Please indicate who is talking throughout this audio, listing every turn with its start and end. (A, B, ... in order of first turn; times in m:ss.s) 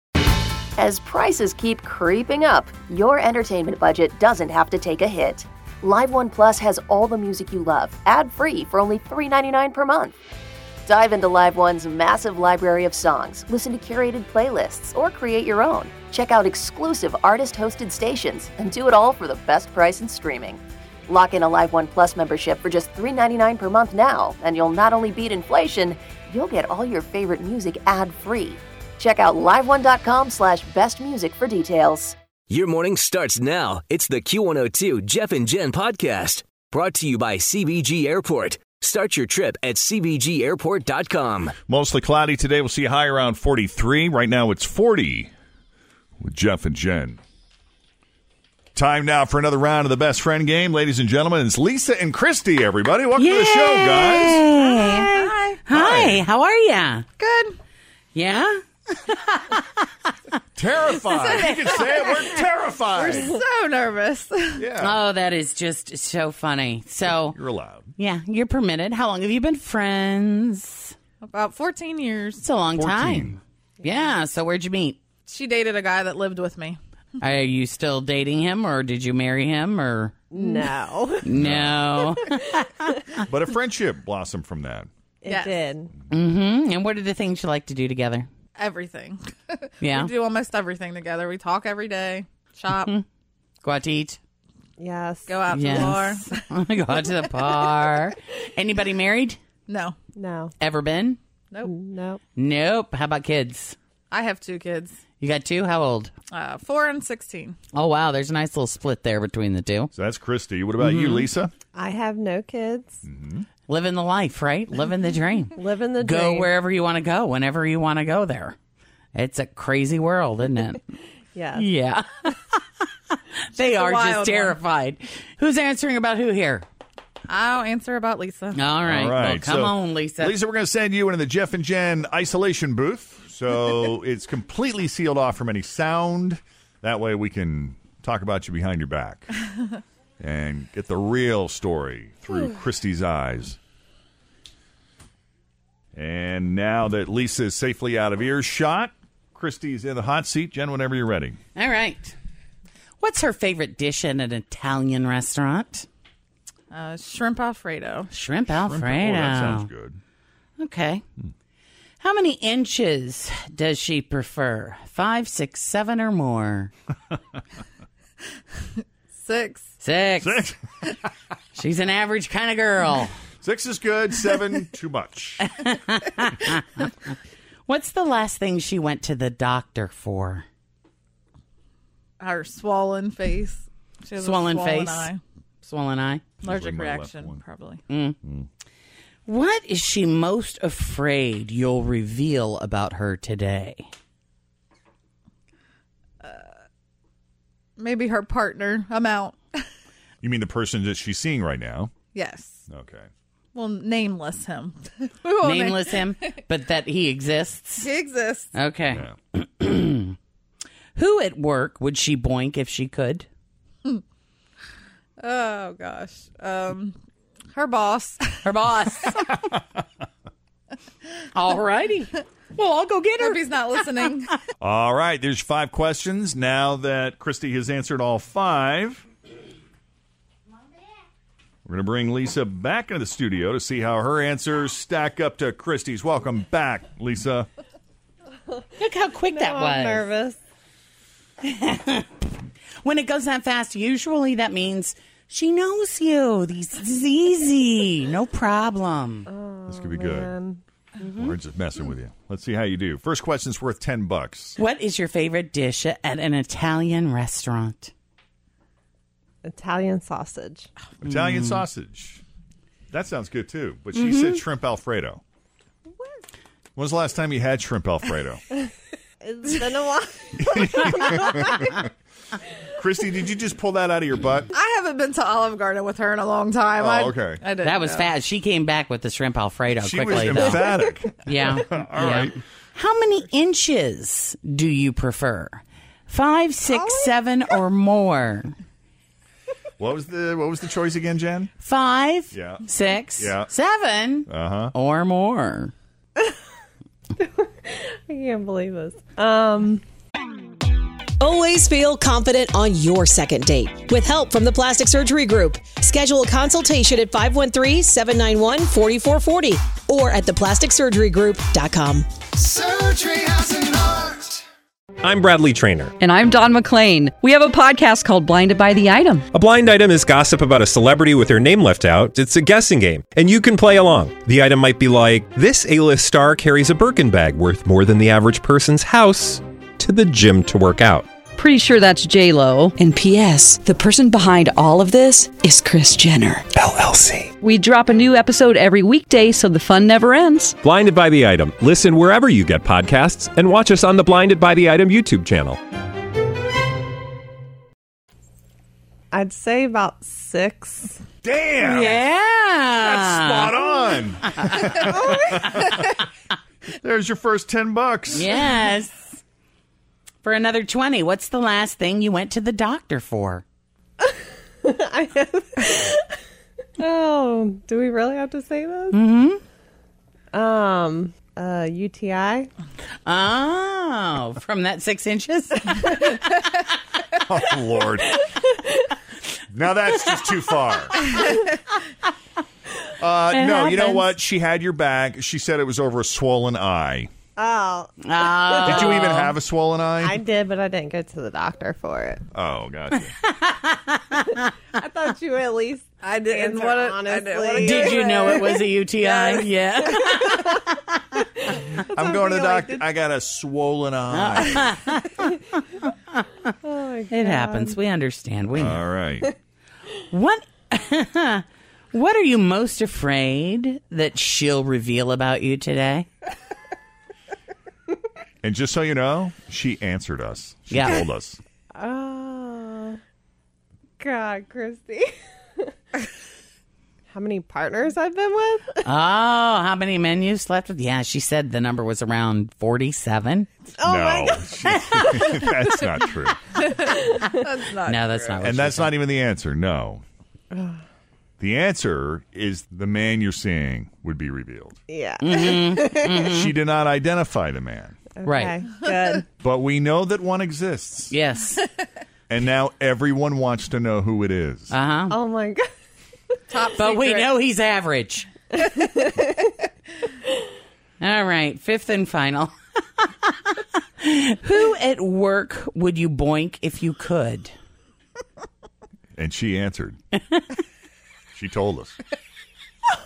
0:00.8-0:10.2 A
0:10.8-0:32.1 A
0:32.5-0:41.5 B
0:41.7-0:45.3 C
0:46.2-0:47.2 C
0:48.8-0:54.4 C
0:53.2-0:57.1 D
0:54.7-0:55.5 E
0:55.7-0:56.3 C
0:57.2-0:57.6 E
0:58.1-0:59.8 D
1:00.6-1:03.3 C
1:00.9-1:01.8 E
1:03.0-1:04.7 E
1:04.6-1:05.0 C
1:04.8-1:07.4 D
1:07.0-1:07.9 C
1:08.0-1:10.9 D
1:11.2-1:12.4 E
1:12.4-1:15.0 D
1:12.7-1:13.4 C
1:15.3-1:16.8 E
1:17.2-1:20.6 D
1:20.3-1:21.4 F
1:21.2-1:22.9 D
1:21.3-1:21.9 C
1:23.3-1:24.9 C
1:25.2-1:25.9 F
1:25.3-1:25.8 E
1:26.1-1:28.3 D
1:28.6-1:33.0 E
1:29.8-1:30.1 D
1:32.8-1:33.0 D
1:33.6-1:34.2 D
1:34.8-1:36.0 F
1:35.3-1:36.4 E
1:35.5-1:39.4 D
1:39.7-1:40.0 E
1:40.2-1:40.5 F
1:40.6-1:41.2 D
1:41.6-1:42.2 F
1:42.4-1:43.8 D
1:44.1-1:45.0 E
1:45.2-1:46.1 D
1:46.3-1:47.6 E
1:47.7-1:49.9 D
1:49.9-1:51.5 C
1:50.8-1:51.3 D
1:51.7-1:53.0 F
1:53.0-1:53.4 C
1:53.7-1:58.6 D
1:55.6-1:56.5 F
1:59.1-2:00.8 D
2:01.4-2:01.6 F
2:01.5-2:06.6 D
2:03.7-2:04.6 E
2:07.3-2:08.7 E
2:08.5-2:10.4 D
2:08.8-2:19.3 C
2:20.2-2:23.6 C
2:25.9-2:31.4 C
2:31.6-2:32.1 D
2:33.0-2:35.9 D
2:36.7-2:38.1 E
2:38.1-2:39.7 D
2:38.5-2:40.0 C
2:40.6-2:41.0 D
2:42.0-2:46.7 D
2:49.2-2:49.7 E
2:49.8-2:50.5 D
2:50.2-2:50.6 C
2:51.6-2:53.1 D
2:53.4-2:55.5 C
2:55.4-2:56.9 D
2:57.6-3:00.4 D
3:02.2-3:05.2 E
3:04.2-3:05.1 D
3:05.6-3:06.2 D
3:06.4-3:07.8 E
3:06.4-3:07.4 C
3:07.9-3:08.2 D
3:09.2-3:13.9 D
3:17.8-3:19.6 E
3:20.2-3:21.9 C
3:22.1-3:22.6 E
3:22.7-3:23.1 C
3:23.6-3:26.1 E
3:25.4-3:27.9 D
3:27.8-3:28.5 E
3:28.5-3:30.1 D
3:28.9-3:29.1 C
3:31.0-3:33.3 D
3:35.2-3:37.0 E
3:37.5-3:38.5 E
3:38.4-3:39.3 D
3:41.3-3:44.1 D
3:43.2-3:44.3 E
3:44.6-3:49.0 C
3:51.7-3:57.5 C
3:58.8-4:00.1 D
3:59.3-4:00.4 F
4:01.4-4:02.0 D
4:02.8-4:09.3 D
4:09.3-4:10.6 F
4:09.7-4:10.3 C
4:11.0-4:11.3 D
4:11.1-4:14.6 C
4:14.6-4:17.9 D
4:19.4-4:20.7 F
4:21.0-4:22.2 C
4:21.1-4:21.6 D
4:22.9-4:25.2 C
4:24.0-4:24.4 D
4:26.8-4:28.4 C
4:29.2-4:31.4 F
4:30.5-4:31.8 C
4:32.8-4:34.5 C
4:34.5-4:38.1 E
4:36.8-4:37.4 C
4:37.6-4:40.7 D
4:39.8-4:42.4 C
4:41.2-4:48.5 D
4:49.8-4:51.5 C
4:51.6-4:55.7 D
4:52.3-4:52.6 C
4:53.2-4:53.5 C
4:54.3-4:54.7 C
4:57.2-4:59.8 F
5:01.2-5:14.3 G
5:15.0-5:15.9 H
5:16.0-5:19.3 I
5:19.3-5:31.0 H
5:31.4-5:36.5 I
5:37.4-5:40.6 I
5:40.6-5:45.6 H
5:49.1-5:51.0 F
5:51.2-5:52.0 C
5:51.6-5:53.6 D
5:52.8-5:55.9 C
5:56.8-5:58.4 C
5:58.2-5:59.2 D
6:00.2-6:03.4 D
6:04.6-6:06.0 F
6:06.8-6:09.0 F
6:08.9-6:09.4 D
6:10.3-6:12.5 F
6:13.0-6:15.9 D
6:17.2-6:18.2 C
6:19.5-6:21.1 C
6:23.0-6:27.1 C
6:23.3-6:24.1 D
6:27.4-6:27.9 F
6:28.0-6:29.4 D
6:28.6-6:30.2 C
6:30.0-6:32.2 F
6:32.3-6:33.2 C
6:33.2-6:34.2 D
6:34.8-6:39.4 F
6:36.0-6:38.3 E
6:37.6-6:40.5 D
6:41.9-6:42.8 F
6:41.9-6:44.7 C
6:44.1-6:45.3 D
6:46.1-6:46.5 D
6:46.6-6:47.8 F
6:47.1-6:48.8 D
6:48.5-6:49.3 C
6:50.1-6:56.1 D
6:58.4-7:01.4 C
7:00.7-7:01.0 D
7:01.8-7:03.0 F
7:04.0-7:05.1 F
7:07.1-7:08.8 F
7:08.8-7:13.5 D
7:13.8-7:15.2 F
7:13.8-7:16.4 C
7:16.6-7:18.3 E
7:17.8-7:19.0 D
7:18.4-7:20.0 C
7:20.5-7:20.8 F
7:21.4-7:24.8 C
7:24.9-7:26.2 F
7:25.2-7:26.6 D
7:26.2-7:28.0 C
7:28.2-7:29.2 F
7:28.2-7:28.6 D
7:28.7-7:29.2 E
7:29.4-7:31.2 C
7:31.1-7:31.6 D
7:32.3-7:34.7 C
7:34.7-7:35.2 D
7:35.1-7:35.6 F
7:36.5-7:37.3 E
7:36.8-7:38.3 D
7:41.0-7:43.3 D
7:44.0-7:47.5 D
7:49.2-7:50.0 C
7:51.3-7:52.0 C